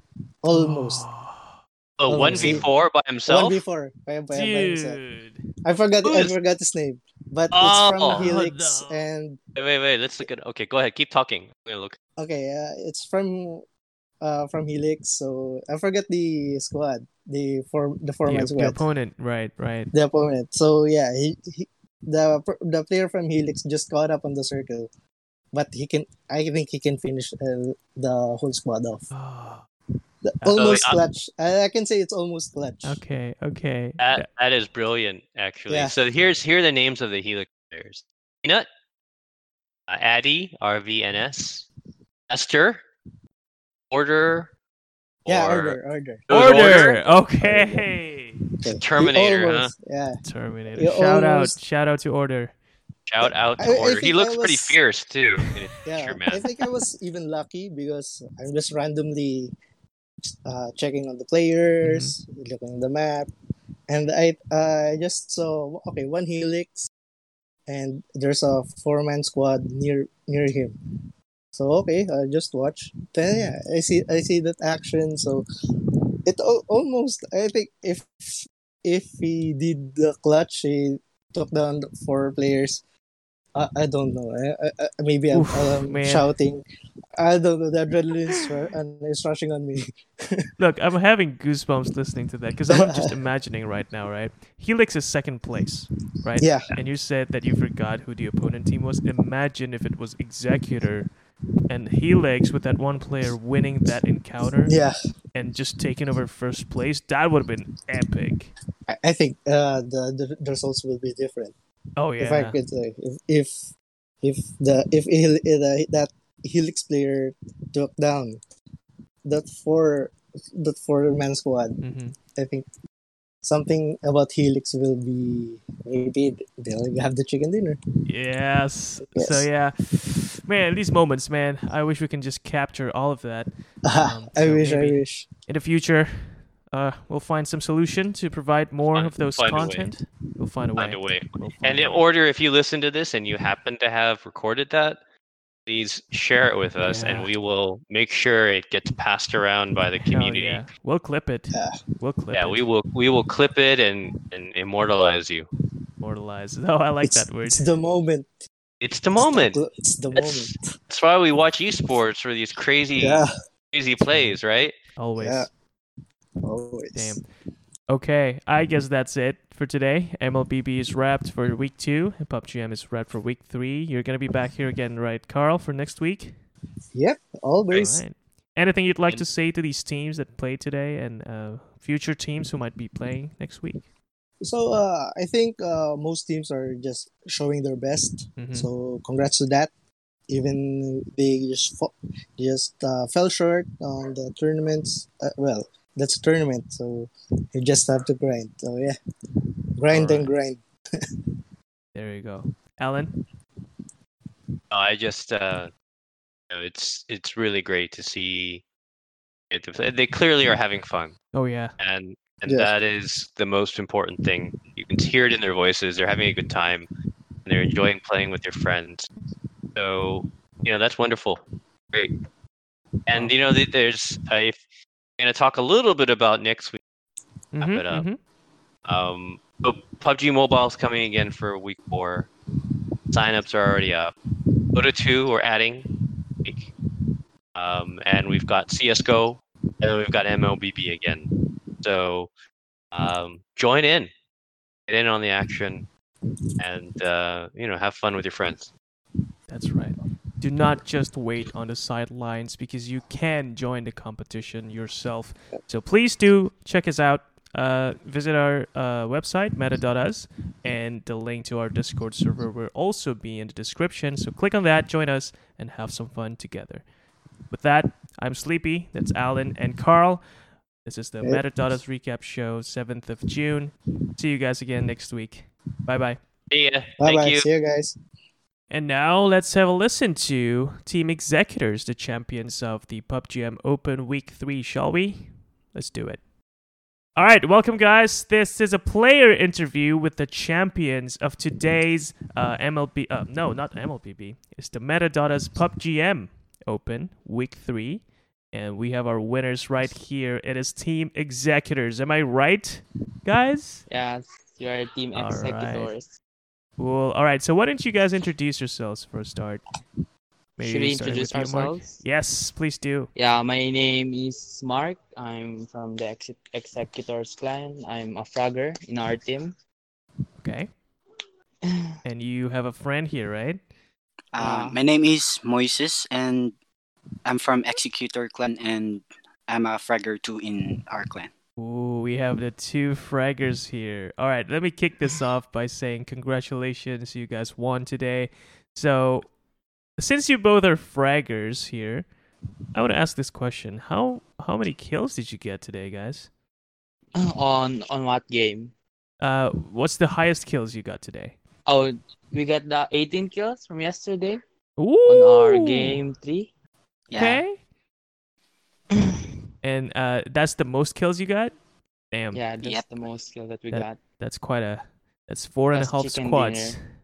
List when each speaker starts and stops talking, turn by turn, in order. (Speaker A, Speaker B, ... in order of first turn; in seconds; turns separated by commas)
Speaker A: 0.4-1.1, Speaker B: 0.5-1.6, Speaker C: 2.0-3.6, Speaker A: 2.1-2.7, Speaker B: 2.2-2.7, Speaker A: 3.3-5.0, Speaker B: 4.3-5.4, Speaker A: 5.6-9.4, Speaker C: 6.0-6.3, Speaker C: 7.5-8.3, Speaker B: 8.1-9.1, Speaker C: 9.6-12.0, Speaker A: 12.2-13.6, Speaker A: 14.2-18.8, Speaker B: 18.3-19.9, Speaker A: 19.9-24.9, Speaker A: 25.5-29.1, Speaker B: 29.1-29.6, Speaker A: 30.2-33.0, Speaker B: 30.4-30.7, Speaker C: 30.5-31.0, Speaker B: 32.8-34.3, Speaker C: 34.0-38.7, Speaker A: 35.7-35.9, Speaker C: 39.9-41.7, Speaker C: 42.3-42.8, Speaker C: 43.9-44.5, Speaker C: 45.2-45.8, Speaker A: 45.3-47.9, Speaker C: 46.3-47.0, Speaker B: 46.3-48.4, Speaker A: 48.6-50.2, Speaker C: 48.8-49.7, Speaker B: 50.2-52.5, Speaker A: 50.8-51.6, Speaker C: 53.1-56.5, Speaker A: 53.2-54.8, Speaker A: 55.9-59.5, Speaker A: 60.3-63.3, Speaker B: 61.8-62.1, Speaker A: 63.9-66.9, Speaker A: 67.7-70.8, Speaker A: 71.5-75.5, Speaker B: 73.3-73.6, Speaker A: 76.2-82.8, Speaker A: 83.5-86.7, Speaker B: 85.3-86.3, Speaker A: 87.2-90.5, Speaker B: 90.6-101.1, Speaker A: 92.7-93.1, Speaker A: 96.4-96.7, Speaker B: 101.7-104.8, Speaker A: 104.7-104.9, Speaker B: 105.3-108.5, Speaker A: 108.9-111.5, Speaker B: 112.0-112.6, Speaker A: 112.2-118.4, Speaker A: 119.2-121.8, Speaker B: 121.8-122.2, Speaker A: 122.3-122.7, Speaker A: 123.4-127.8, Speaker B: 128.1-142.0, Speaker A: 129.0-129.5, Speaker A: 133.8-135.3, Speaker C: 138.9-139.9, Speaker C: 140.8-145.0, Speaker C: 145.7-150.6, Speaker B: 146.8-147.3, Speaker B: 150.0-152.6, Speaker A: 151.5-151.8, Speaker C: 152.3-155.5, Speaker B: 156.0-157.7, Speaker A: 157.0-158.3, Speaker C: 158.8-159.6, Speaker A: 159.2-160.7, Speaker C: 160.1-164.7, Speaker A: 163.0-163.3, Speaker B: 164.1-164.4, Speaker B: 165.0-165.5, Speaker A: 165.2-165.5, Speaker A: 166.4-167.2, Speaker B: 166.9-167.2, Speaker B: 167.9-176.3, Speaker A: 176.9-178.0, Speaker B: 177.7-183.8, Speaker A: 184.4-189.7, Speaker B: 188.4-188.7, Speaker A: 190.3-199.0, Speaker A: 199.8-200.6, Speaker B: 199.9-200.3, Speaker B: 201.9-203.1, Speaker C: 204.7-205.7, Speaker C: 206.5-208.6, Speaker C: 209.5-211.2, Speaker B: 211.3-211.7, Speaker C: 211.8-216.9, Speaker A: 212.5-212.7, Speaker C: 217.4-219.1, Speaker C: 219.8-222.1, Speaker C: 223.1-224.6, Speaker C: 225.2-226.8, Speaker B: 227.6-228.2, Speaker C: 227.6-228.1, Speaker C: 228.8-232.3, Speaker C: 233.1-234.1, Speaker C: 234.7-235.9, Speaker C: 237.6-241.3, Speaker C: 241.8-242.3, Speaker C: 242.9-244.1, Speaker C: 244.9-245.9, Speaker C: 246.6-248.7, Speaker B: 249.5-266.8, Speaker B: 267.5-270.2, Speaker B: 270.9-276.2, Speaker C: 276.5-277.5, Speaker A: 277.0-278.0, Speaker B: 278.7-286.2, Speaker B: 287.2-303.9, Speaker D: 303.9-306.2, Speaker B: 305.1-305.9, Speaker B: 306.8-309.6, Speaker D: 310.6-312.0, Speaker B: 310.6-313.1, Speaker D: 313.1-319.6, Speaker B: 320.4-320.7, Speaker D: 321.6-321.9, Speaker B: 322.0-323.6, Speaker E: 324.3-326.6, Speaker D: 324.4-324.8, Speaker E: 327.2-331.3, Speaker B: 331.6-339.3, Speaker B: 340.0-342.1, Speaker B: 342.8-346.3, Speaker D: 347.2-348.7, Speaker B: 349.2-351.4, Speaker D: 351.7-354.4, Speaker B: 354.8-356.0, Speaker D: 355.1-356.5, Speaker E: 357.1-357.4, Speaker B: 357.1-357.6, Speaker B: 359.6-361.6, Speaker B: 362.1-362.4, Speaker D: 362.3-364.0, Speaker E: 362.6-362.9, Speaker B: 363.7-366.8, Speaker D: 365.7-366.8